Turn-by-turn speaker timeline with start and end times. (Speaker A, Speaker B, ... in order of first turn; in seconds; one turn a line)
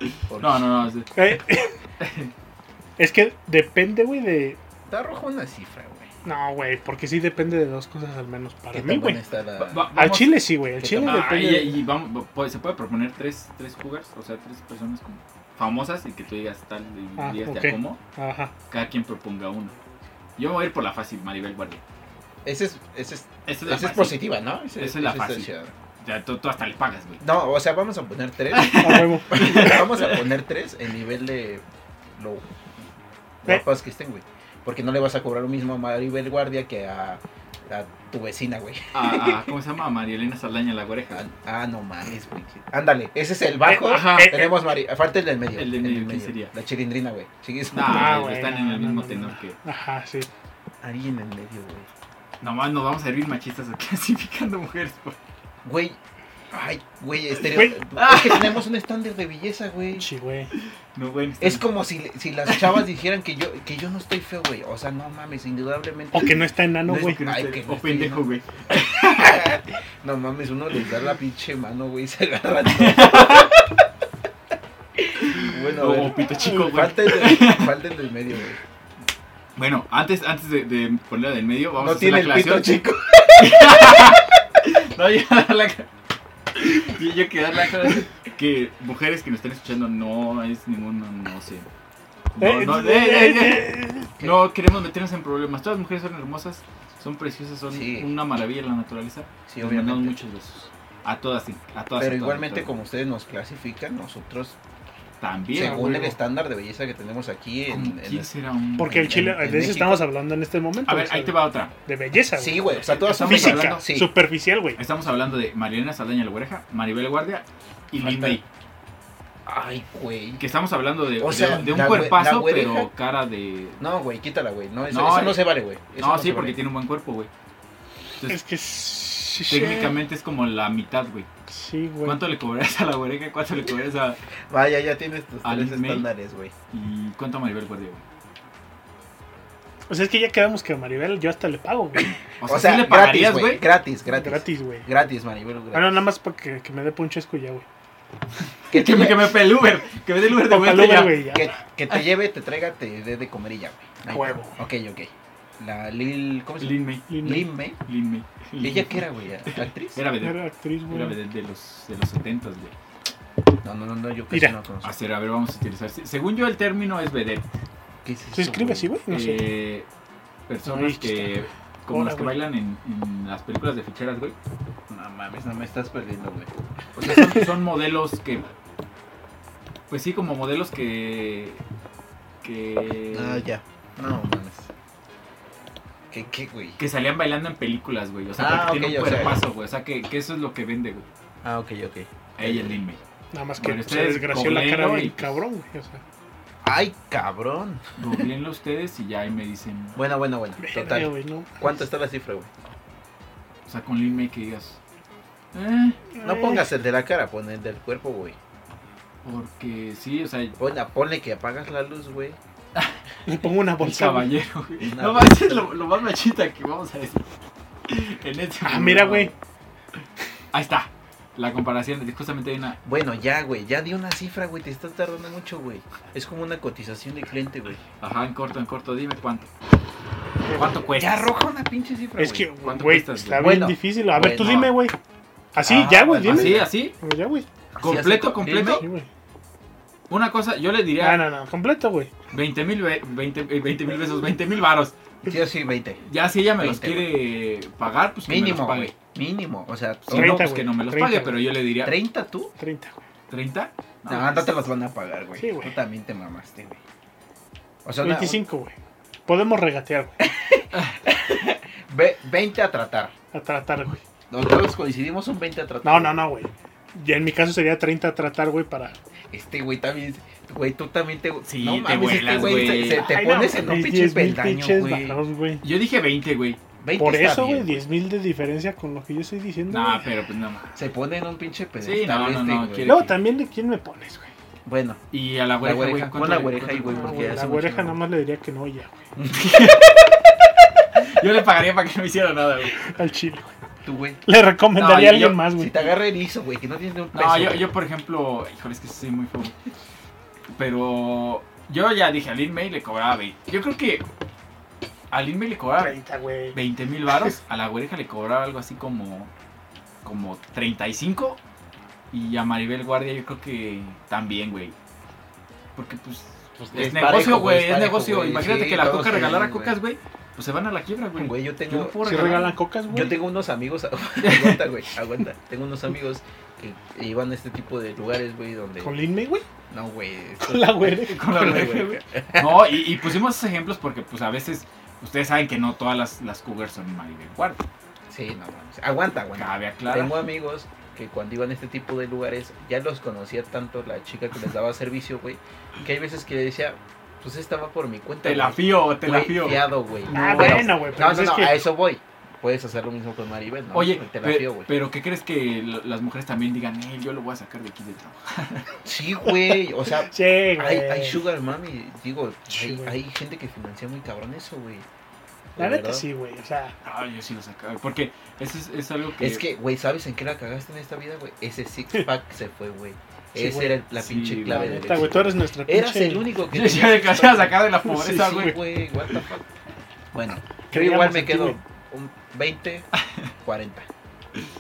Speaker A: 0.3-0.7
Speaker B: 0.4-1.4
Speaker C: 1.1-1.8
Speaker B: 2.0-2.3
Speaker C: 3.0-4.6
Speaker A: 4.9-6.1
Speaker C: 6.2-9.2
Speaker A: 8.7-9.9
Speaker B: 9.6-10.4
Speaker C: 9.9-11.8
Speaker A: 10.8-11.5
Speaker B: 11.0-18.0
Speaker C: 17.2-18.5
Speaker B: 18.7-19.7
Speaker B: 20.4-21.8
Speaker A: 22.4-25.7
Speaker B: 23.5-24.2
Speaker B: 24.8-25.5
Speaker B: 26.0-27.2
Speaker A: 27.2-31.6
Speaker B: 28.5-30.2
Speaker C: 28.8-29.8
Speaker A: 32.1-32.5
Speaker A: 33.4-39.5
Speaker B: 38.9-41.2
Speaker A: 41.1-48.3
Speaker C: 43.7-44.5
Speaker B: 43.8-44.5
Speaker B: 45.5-46.5
Speaker B: 47.7-49.6
Speaker C: 47.8-50.3
Speaker A: 50.8-51.9
Speaker B: 52.4-55.2
Speaker A: 55.6-56.0
Speaker A: 56.5-60.1
Speaker B: 57.9-58.6
Speaker C: 60.0-60.5
Speaker B: 60.5-61.6
Speaker A: 61.4-73.8
Speaker B: 62.5-62.7
Speaker C: 66.1-67.2
Speaker B: 66.9-69.5
Speaker B: 72.7-73.5
Speaker A: 75.0-78.6
Speaker B: 75.2-77.8
Speaker C: 76.3-76.7
Speaker B: 79.5-82.8
Speaker A: 81.8-84.3
Speaker B: 83.3-85.9
Speaker B: 86.5-91.7
Speaker B: 92.4-102.7
Speaker C: 92.4-94.1
Speaker A: 97.7-98.1
Speaker A: 99.5-100.2
Speaker A: 102.0-104.6
Speaker B: 105.2-106.0
Speaker A: 105.5-110.0
Speaker C: 105.5-106.2
Speaker B: 107.7-109.0
Speaker C: 108.8-114.8
Speaker B: 110.8-111.7
Speaker A: 112.3-114.1
Speaker B: 113.0-113.8
Speaker B: 114.8-118.4
Speaker A: 118.0-118.4
Speaker A: 119.5-120.4
Speaker B: 120.4-123.8
Speaker A: 121.2-122.9
Speaker A: 123.8-126.6
Speaker B: 124.9-127.3
Speaker C: 128.3-129.9
Speaker B: 129.5-131.3
Speaker C: 131.5-132.2
Speaker B: 132.0-134.2
Speaker A: 134.5-136.5
Speaker B: 135.4-136.1
Speaker B: 136.7-138.0
Speaker C: 139.9-142.1
Speaker B: 142.4-143.6
Speaker A: 142.4-146.0
Speaker C: 144.1-144.9
Speaker C: 145.7-147.6
Speaker B: 148.7-151.2
Speaker A: 148.7-149.4
Speaker C: 150.3-151.5
Speaker A: 151.3-157.8
Speaker C: 154.1-154.6
Speaker B: 156.6-157.1
Speaker C: 157.1-157.5
Speaker B: 157.8-162.7
Speaker A: 158.6-160.0
Speaker C: 160.2-161.2
Speaker A: 163.6-164.9
Speaker B: 164.8-167.5
Speaker A: 168.0-168.9
Speaker C: 168.3-169.5
Speaker B: 169.1-169.9
Speaker B: 170.5-174.3
Speaker C: 170.6-171.4
Speaker C: 171.9-172.4
Speaker A: 174.9-177.5
Speaker B: 177.0-178.5
Speaker B: 179.9-181.6
Speaker B: 182.4-183.4
Speaker A: 183.1-184.7
Speaker A: 186.1-186.8
Speaker B: 186.8-191.1
Speaker A: 188.4-189.4
Speaker A: 191.4-192.8
Speaker B: 192.4-193.0
Speaker C: 193.3-196.0
Speaker B: 193.6-195.4
Speaker A: 196.6-197.9
Speaker B: 198.0-200.0
Speaker A: 199.9-202.5
Speaker C: 200.6-201.7
Speaker B: 203.7-204.8
Speaker B: 205.5-206.1
Speaker C: 206.1-206.7
Speaker A: 206.2-208.3
Speaker B: 209.2-210.6
Speaker A: 210.6-212.4
Speaker B: 212.8-213.0
Speaker C: 213.2-214.3
Speaker B: 213.8-217.2
Speaker A: 214.8-215.7
Speaker B: 217.9-219.3
Speaker C: 218.6-219.3
Speaker B: 220.5-222.8
Speaker A: 222.8-227.8
Speaker B: 228.0-229.5
Speaker B: 230.5-231.3
Speaker A: 230.9-232.5
Speaker C: 232.2-234.9
Speaker B: 232.6-233.5
Speaker A: 233.3-234.7
Speaker C: 235.5-237.5
Speaker A: 235.6-236.7
Speaker B: 236.2-236.9
Speaker A: 237.8-238.8
Speaker B: 237.8-238.8
Speaker C: 238.6-239.1
Speaker B: 240.1-241.2
Speaker C: 241.0-242.1
Speaker B: 242.3-244.9
Speaker A: 245.2-246.0
Speaker B: 246.0-248.9
Speaker A: 246.5-247.2
Speaker A: 248.3-250.5
Speaker B: 250.1-251.9
Speaker C: 250.1-251.5
Speaker A: 251.8-252.5
Speaker C: 252.6-253.0
Speaker B: 253.3-254.7
Speaker A: 254.1-256.8
Speaker C: 255.4-255.7
Speaker A: 257.8-258.4
Speaker C: 258.0-258.7
Speaker C: 259.3-260.2
Speaker A: 260.2-263.1
Speaker C: 263.3-264.0
Speaker A: 264.3-266.2
Speaker C: 265.8-268.9
Speaker A: 269.3-275.2
Speaker B: 271.4-273.1
Speaker C: 272.5-275.6
Speaker B: 275.6-276.6
Speaker A: 276.8-277.8
Speaker C: 277.0-280.1
Speaker B: 279.7-280.8
Speaker A: 280.8-283.0
Speaker B: 281.8-283.2
Speaker C: 282.8-284.3
Speaker A: 284.6-285.0
Speaker B: 285.1-287.2
Speaker A: 285.6-288.0
Speaker C: 286.9-289.0
Speaker A: 289.1-290.1
Speaker B: 289.3-289.9
Speaker B: 291.0-292.9
Speaker C: 292.7-293.5
Speaker A: 293.8-294.2
Speaker C: 294.2-295.9
Speaker B: 294.8-295.4
Speaker A: 295.5-297.7
Speaker B: 297.1-299.6
Speaker B: 300.5-304.0
Speaker B: 305.1-306.0
Speaker C: 305.8-306.6
Speaker B: 306.5-309.3
Speaker B: 310.0-311.4
Speaker B: 312.1-314.8
Speaker B: 315.8-322.6
Speaker A: 316.6-319.8
Speaker A: 321.2-328.9
Speaker C: 322.0-323.2
Speaker B: 324.2-324.6
Speaker C: 328.8-329.4
Speaker A: 329.7-332.8
Speaker C: 330.4-331.7
Speaker B: 331.0-337.6
Speaker A: 338.1-354.7
Speaker B: 339.4-340.2
Speaker B: 348.2-350.6
Speaker C: 350.1-351.6
Speaker B: 353.7-358.7
Speaker A: 358.8-364.9
Speaker C: 359.4-361.2
Speaker C: 362.5-362.9
Speaker A: 365.5-366.0
Speaker C: 365.6-366.8
Speaker B: 366.8-369.4
Speaker A: 369.2-379.5
Speaker C: 373.3-373.8
Speaker B: 373.9-375.0
Speaker C: 374.4-376.2
Speaker B: 376.5-378.6
Speaker C: 377.9-378.5
Speaker A: 380.1-382.9
Speaker C: 380.7-381.6
Speaker B: 383.0-383.3
Speaker A: 383.4-383.9